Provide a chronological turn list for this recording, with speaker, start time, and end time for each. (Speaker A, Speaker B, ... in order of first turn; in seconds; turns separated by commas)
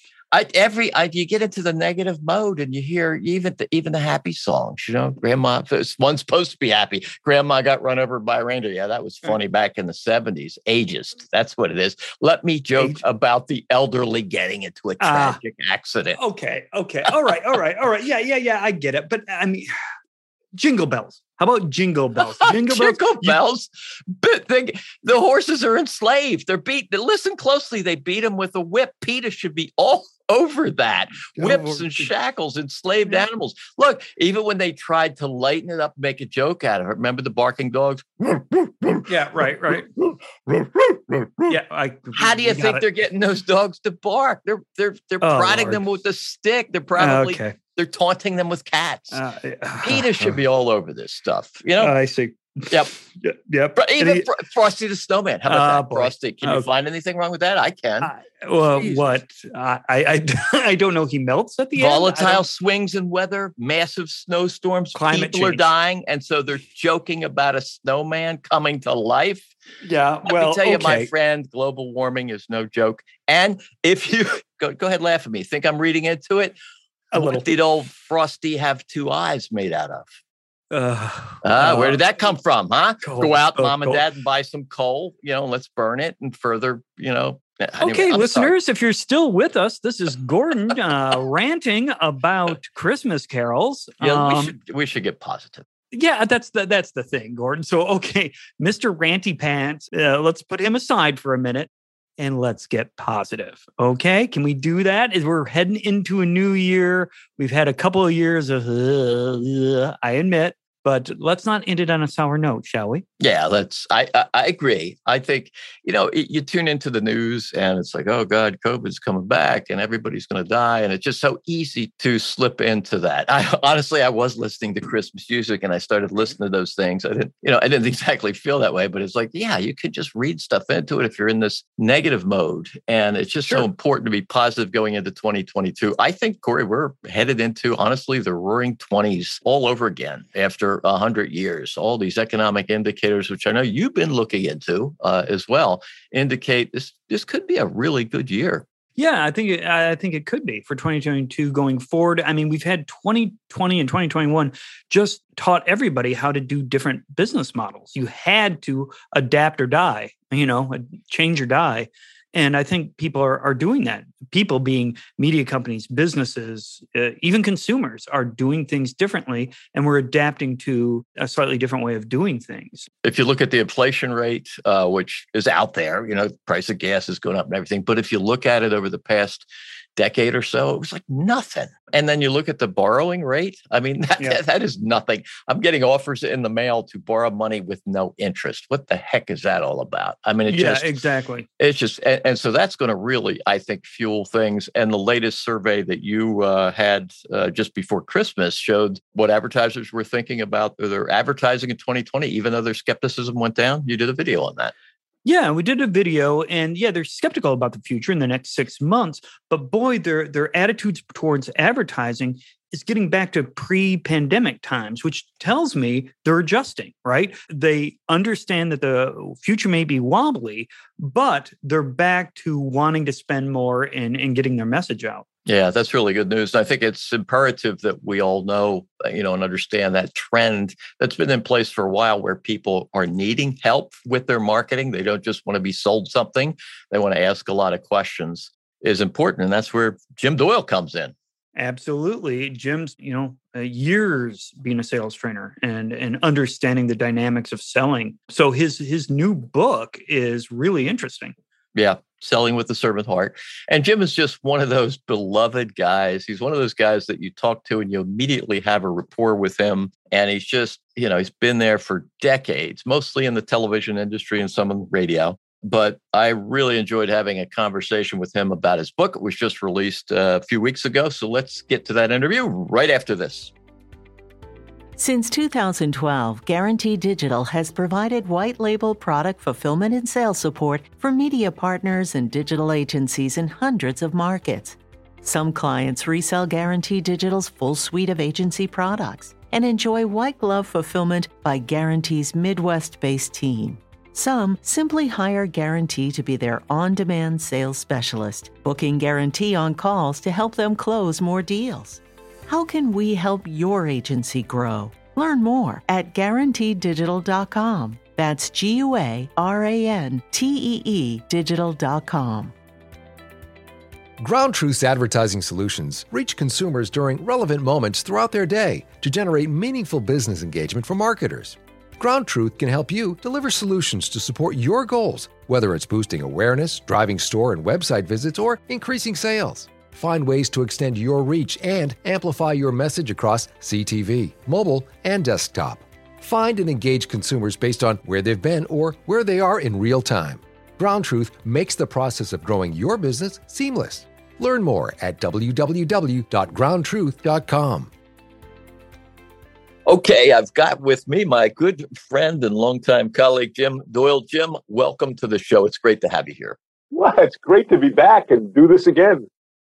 Speaker A: 0.3-16.2, Speaker B: 12.8-13.0, Speaker B: 15.0-15.4, Speaker B: 16.2-19.7, Speaker B: 20.5-23.4, Speaker A: 22.4-39.1, Speaker B: 31.4-32.1, Speaker B: 39.1-39.9, Speaker A: 40.0-41.6, Speaker B: 41.5-42.9, Speaker A: 42.2-49.2, Speaker B: 45.2-45.8, Speaker B: 47.0-47.6, Speaker B: 49.1-50.4, Speaker A: 49.8-52.0, Speaker B: 51.8-54.3, Speaker A: 53.8-58.1, Speaker B: 55.5-56.7, Speaker B: 58.0-62.4, Speaker A: 58.7-59.1, Speaker A: 61.8-69.5, Speaker B: 65.0-65.7, Speaker B: 69.8-71.1, Speaker A: 70.3-76.6, Speaker B: 77.1-77.5, Speaker A: 77.2-80.1, Speaker B: 80.7-82.0, Speaker A: 81.4-88.5, Speaker B: 83.0-84.0, Speaker B: 87.8-94.5, Speaker A: 94.0-95.7, Speaker B: 95.9-113.0, Speaker A: 113.2-148.6, Speaker B: 149.0-172.9, Speaker A: 173.0-191.0, Speaker B: 190.5-191.5, Speaker A: 191.6-204.7, Speaker B: 205.2-225.2, Speaker A: 225.5-241.1, Speaker B: 241.6-251.3, Speaker A: 251.8-273.5, Speaker C: 275.0-312.5, Speaker D: 314.2-347.9, Speaker A: 349.9-356.6, Speaker E: 356.9-359.3